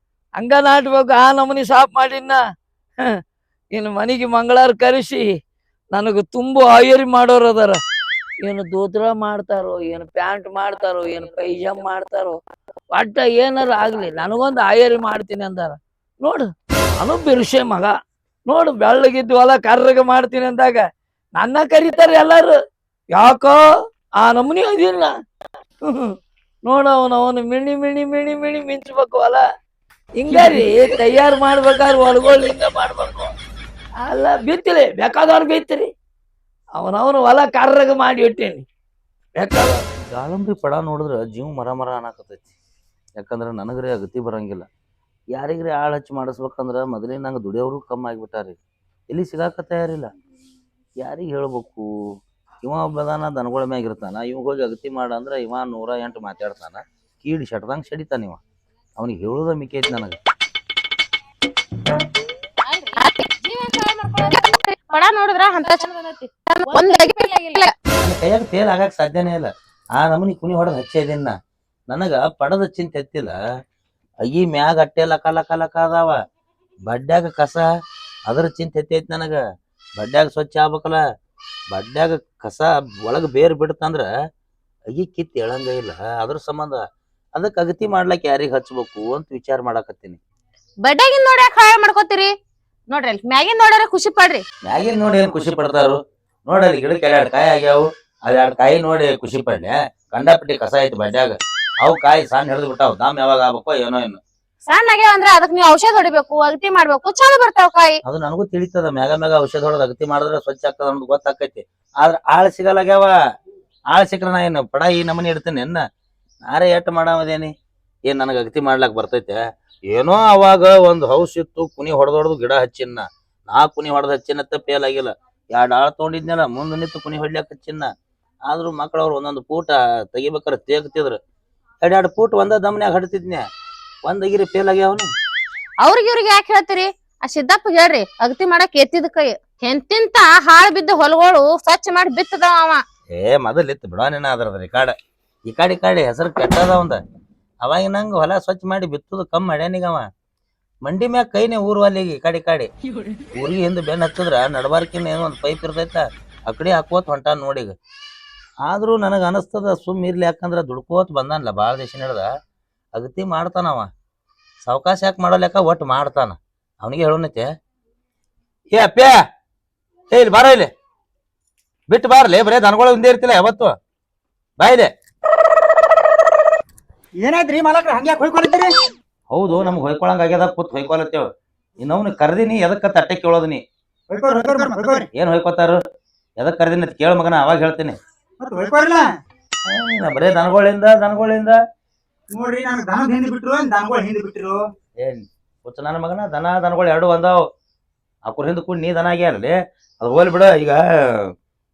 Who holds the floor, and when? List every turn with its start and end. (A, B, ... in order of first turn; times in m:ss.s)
0:00.4-0:02.4 A
0:03.7-0:05.2 A
0:05.9-0:07.8 A
0:08.4-0:12.4 A
0:12.9-0:17.9 A
0:18.5-0:20.8 A
0:21.4-0:22.6 A
0:23.1-0:23.6 A
0:24.2-0:25.1 A
0:25.8-0:29.4 A
0:30.2-0:33.3 A
0:34.0-0:35.9 A
0:36.7-0:38.6 A
0:39.4-0:39.8 A
0:40.1-0:42.5 B
0:43.2-0:44.6 B
0:45.3-0:48.6 B
0:49.1-0:50.1 B
0:51.0-0:51.9 B
0:52.6-0:58.4 B
0:59.0-1:00.2 B
1:02.6-1:07.7 C
1:08.0-1:11.3 B
1:11.9-1:13.4 B
1:14.2-1:16.1 B
1:16.9-1:17.6 B
1:18.3-1:19.4 B
1:20.0-1:21.0 B
1:21.7-1:24.1 B
1:24.9-1:26.8 B
1:27.4-1:30.2 B
1:30.8-1:32.3 C
1:32.9-1:34.4 C
1:34.6-1:44.2 B
1:44.6-1:48.0 C
1:48.0-1:53.1 B
1:53.9-1:55.8 B
1:56.5-1:57.5 B
1:58.1-1:59.4 B
1:59.9-2:07.9 B
2:08.5-2:11.2 B
2:11.8-2:13.4 B
2:14.0-2:15.1 B
2:15.8-2:22.8 C
2:23.1-2:24.9 B
2:25.5-2:27.0 B
2:27.6-2:30.1 B
2:30.8-2:32.7 B
2:33.3-2:37.7 B
2:38.6-2:42.3 B
2:42.9-2:43.9 B
2:44.6-2:47.5 B
2:48.7-2:49.2 B
2:50.1-2:50.7 B
2:51.9-2:53.7 B
2:54.6-2:54.9 B
2:57.2-2:58.7 D
2:59.3-3:01.3 B
3:01.8-3:03.6 B
3:04.1-3:05.1 D
3:05.1-3:05.8 B
3:06.4-3:08.0 B
3:08.4-3:09.0 D
3:09.6-3:11.6 B
3:12.3-3:14.6 D
3:15.0-3:17.4 B
3:18.2-3:21.3 B